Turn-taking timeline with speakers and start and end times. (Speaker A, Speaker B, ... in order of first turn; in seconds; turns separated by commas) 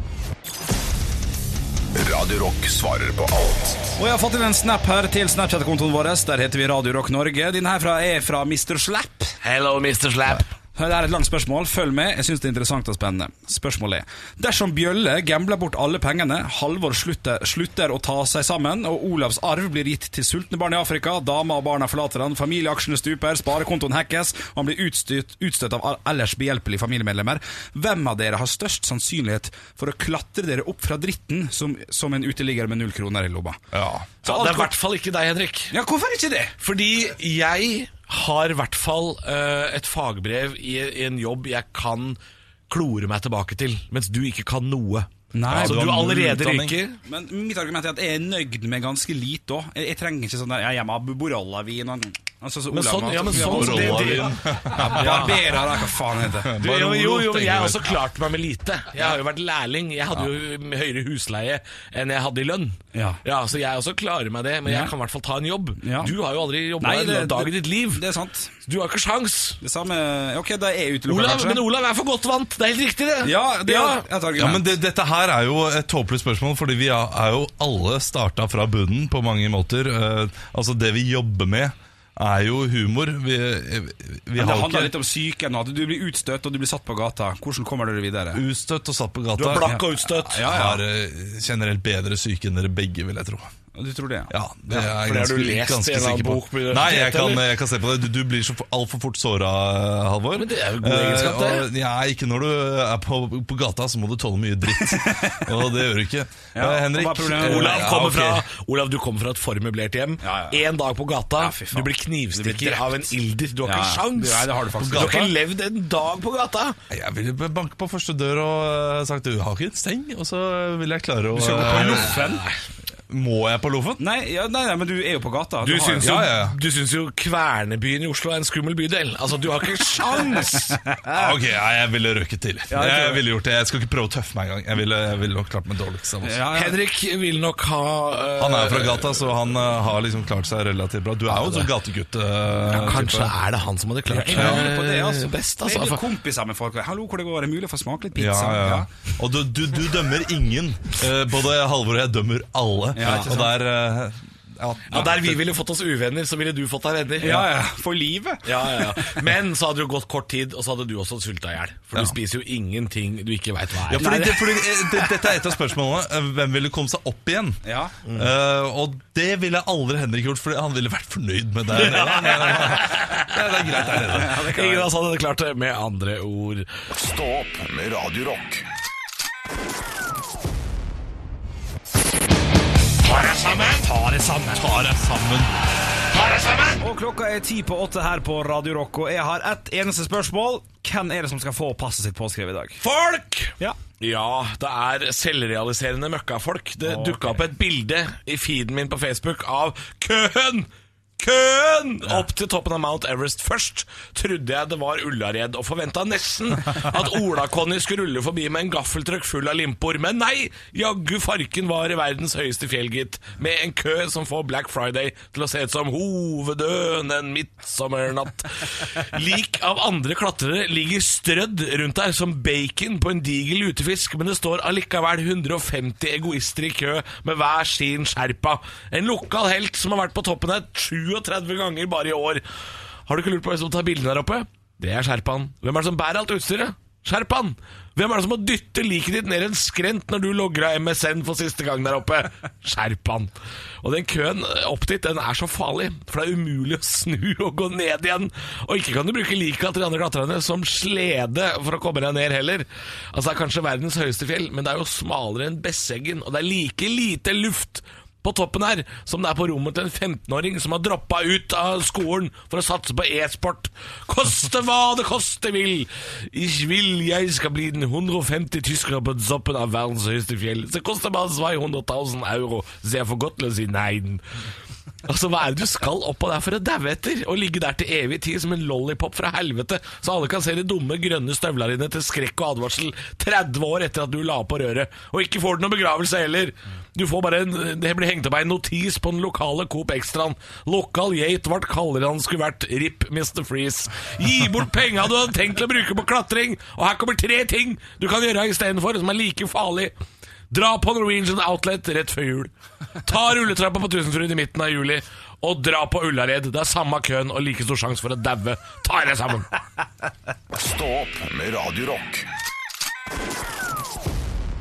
Speaker A: 1.9-4.0, Speaker B: 4.0-9.4, Speaker C: 9.4-10.5, Speaker B: 10.8-33.6, Speaker D: 33.7-34.1, Speaker B: 34.2-34.7, Speaker C: 34.2-35.8, Speaker B: 35.7-36.5, Speaker C: 36.6-42.2, Speaker C: 42.7-47.0, Speaker B: 45.3-45.9, Speaker D: 45.5-46.8, Speaker B: 47.0-56.5, Speaker C: 52.7-55.5, Speaker D: 53.2-55.7, Speaker D: 56.3-58.0, Speaker C: 56.6-68.0, Speaker B: 62.9-63.2, Speaker B: 64.7-64.9, Speaker B: 65.8-66.1, Speaker B: 66.8-68.5, Speaker C: 68.6-69.6, Speaker B: 69.6-71.6, Speaker C: 71.1-74.1, Speaker B: 73.2-74.7, Speaker D: 74.4-84.9, Speaker B: 84.4-88.4, Speaker D: 88.3-93.5, Speaker C: 89.4-90.5, Speaker B: 89.7-90.8, Speaker B: 93.8-94.3, Speaker D: 94.3-108.5, Speaker C: 94.7-97.5, Speaker C: 100.3-101.7, Speaker B: 104.8-105.5, Speaker B: 106.5-108.0, Speaker C: 107.4-116.8, Speaker B: 110.2-110.6, Speaker B: 111.4-115.3, Speaker D: 114.8-115.3, Speaker D: 116.9-122.2, Speaker B: 121.3-122.5, Speaker C: 121.7-122.6, Speaker D: 123.1-124.0, Speaker B: 124.0-126.3, Speaker C: 125.6-130.8, Speaker D: 126.0-126.6, Speaker B: 130.2-131.3, Speaker D: 131.1-136.4, Speaker B: 132.7-133.2, Speaker B: 136.2-136.8, Speaker C: 136.5-139.3, Speaker D: 138.4-143.3, Speaker C: 141.3-141.7, Speaker C: 142.6-146.0, Speaker B: 144.1-148.9, Speaker D: 144.3-144.7, Speaker D: 148.2-155.4, Speaker B: 152.9-153.5, Speaker C: 153.0-153.3, Speaker C: 154.9-157.5, Speaker B: 157.2-159.2, Speaker C: 158.4-164.4, Speaker D: 163.9-174.4, Speaker B: 164.0-164.4, Speaker B: 167.7-168.0, Speaker C: 171.7-176.8, Speaker B: 174.0-174.9, Speaker A: 176.9-178.6, Speaker C: 183.1-183.9, Speaker B: 183.8-184.7, Speaker D: 184.6-185.6, Speaker C: 186.1-186.8, Speaker B: 186.8-192.8, Speaker C: 192.8-232.4, Speaker B: 196.8-197.4, Speaker C: 233.1-274.2, Speaker C: 275.1-299.9, Speaker C: 300.5-309.5, Speaker A: 310.5-312.3